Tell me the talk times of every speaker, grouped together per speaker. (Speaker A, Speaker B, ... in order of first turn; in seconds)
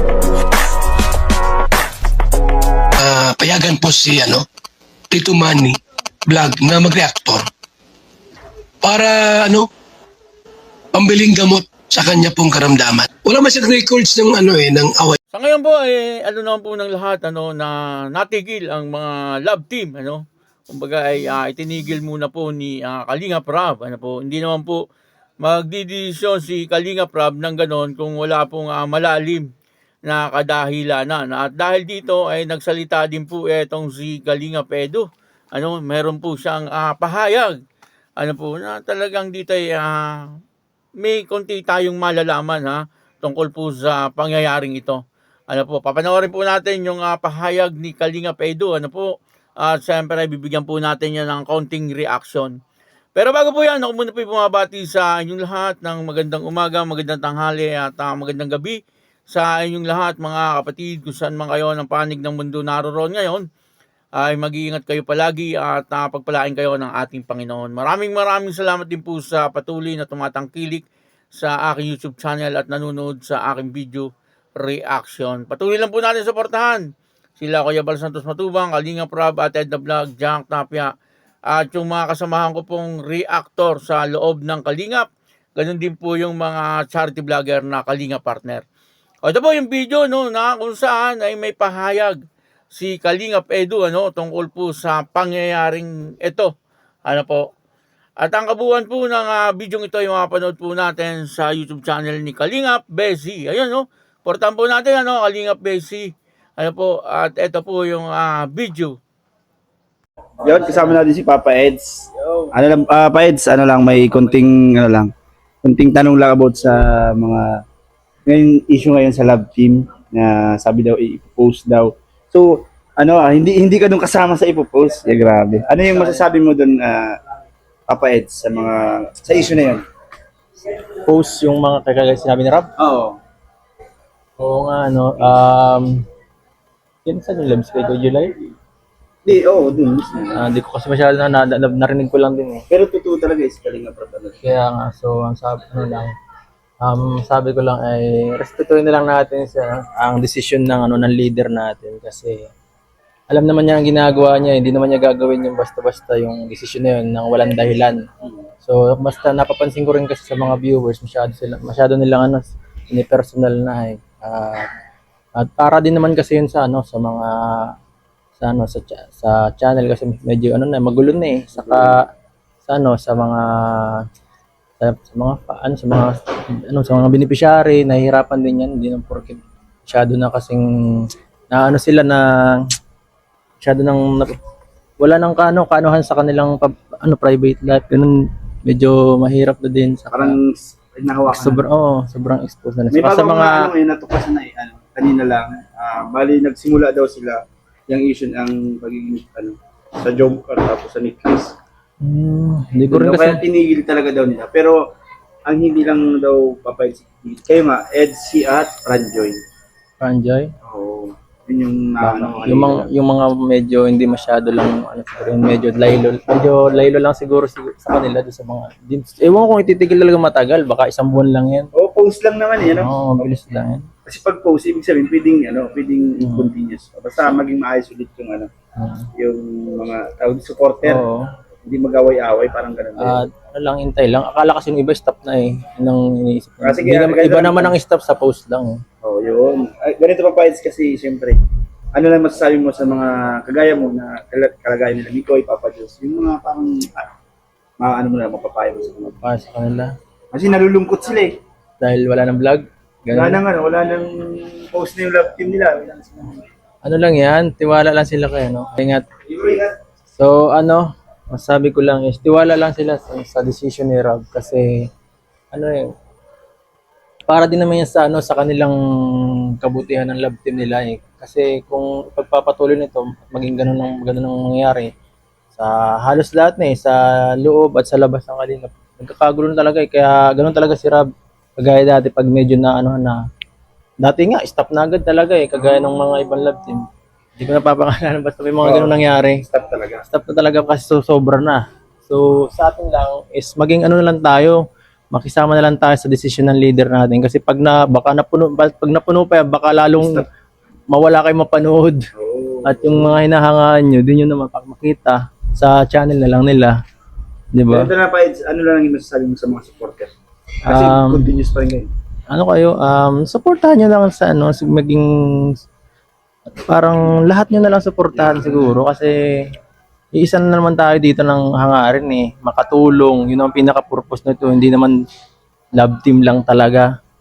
Speaker A: 3.0-4.5, 5.1-7.5, 8.8-9.7, 10.9-15.2
Speaker B: 15.3-24.8, 25.4-29.5, 30.1-37.6, 38.2-40.1, 41.0-49.1, 49.6-52.5, 53.1-63.4, 64.2-76.8, 77.4-80.9, 81.5-88.6, 89.2-92.2, 92.7-96.5, 97.1-97.4, 98.2-108.9
Speaker C: 110.4-115.1, 115.6-117.6, 118.3-127.2, 127.9-129.8, 132.8-133.2, 139.2-140.4, 142.7-144.4, 190.1-191.7, 192.9-201.5, 202.9-204.8, 205.4-209.4, 210.6-212.8, 221.7-223.2, 224.1-228.5, 229.2-231.0, 231.6-233.2, 236.6-237.7, 239.0-241.4, 241.9-247.1, 247.8-249.2, 250.3-251.4, 253.1-256.4, 259.3-259.7, 288.6-290.0, 300.0-300.2, 302.1-303.2, 307.7-310.1, 310.6-311.9
Speaker D: 126.0-126.2, 131.1-132.7, 134.4-136.0, 137.0-138.4, 140.3-142.7, 144.4-146.1, 146.8-152.5, 153.3-158.1, 158.6-164.7, 165.3-167.7, 168.4-172.1, 172.6-174.0, 174.8-182.7, 183.6-184.4, 185.0-190.4, 191.3-193.7, 202.0-203.4, 210.0-210.5, 212.0-221.7, 222.7-223.9, 226.2-226.5, 228.8-229.0, 230.8-231.2, 233.0-238.8, 249.2-249.9, 251.8-253.4, 256.8-259.1, 260.1-264.9, 265.5-265.9, 267.3-274.9, 275.5-283.2, 284.0-286.9, 287.4-289.4, 290.1-300.3, 300.9-302.1, 302.6-306.8, 307.5-307.9, 310.6-311.3, 312.3-315.6, 316.7-319.5, 320.1-325.0, 325.7-326.9